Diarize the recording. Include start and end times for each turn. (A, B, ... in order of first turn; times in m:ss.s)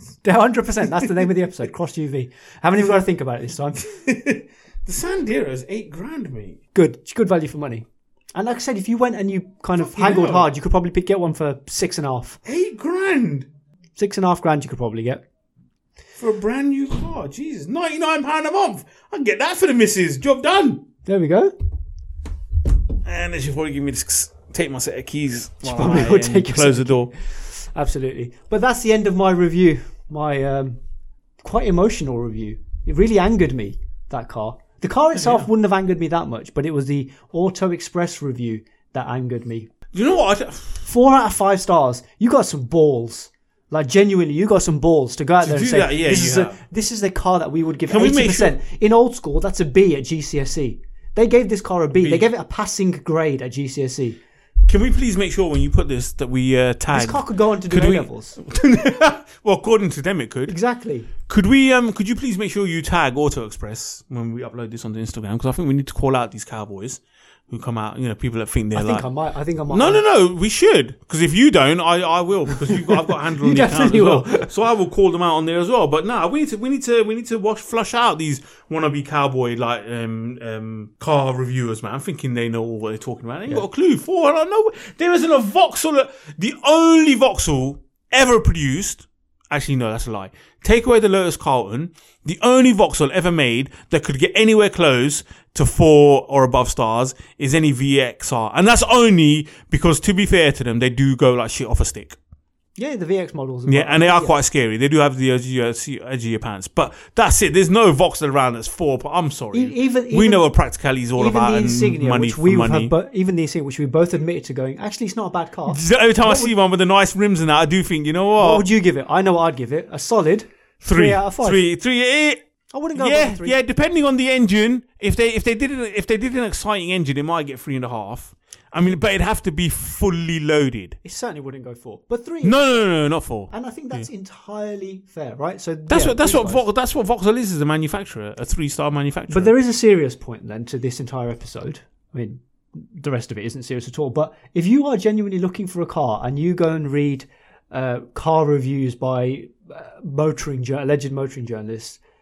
0:00.2-0:03.9 A
0:03.8-0:06.6 B
0:06.8-0:12.4 A
0:09.8-0:10.5 B
0:12.5-0:13.5 B
0:14.0-0:15.2 A
0:16.2-0:20.8 B
0:21.1-0:21.5 A
0:23.0-0:27.1 B
0:25.6-0:30.8 A
0:31.4-0:39.7 A
0:35.2-0:35.5 B
0:39.9-0:40.8 B
0:40.8-0:54.2 A
0:45.4-0:46.6 B
0:47.9-0:48.6 B
0:51.9-0:52.3 B
0:54.7-1:00.5 B
0:56.9-0:58.4 A
1:00.5-1:01.1 A
1:01.3-1:09.1 B
1:08.8-1:10.0 A
1:09.7-1:42.2 B
1:12.6-1:14.5 A
1:42.8-1:44.4 A
1:43.7-1:52.9 B
1:49.5-1:50.5 A
1:51.2-1:56.5 A
1:55.7-1:58.7 B
1:58.4-2:01.6 A
2:00.8-2:02.4 B
2:02.7-2:03.6 A
2:03.0-2:11.0 B
2:11.0-2:12.8 A
2:12.4-2:14.1 B
2:13.5-2:16.6 A
2:15.9-2:19.5 B
2:19.3-2:32.0 A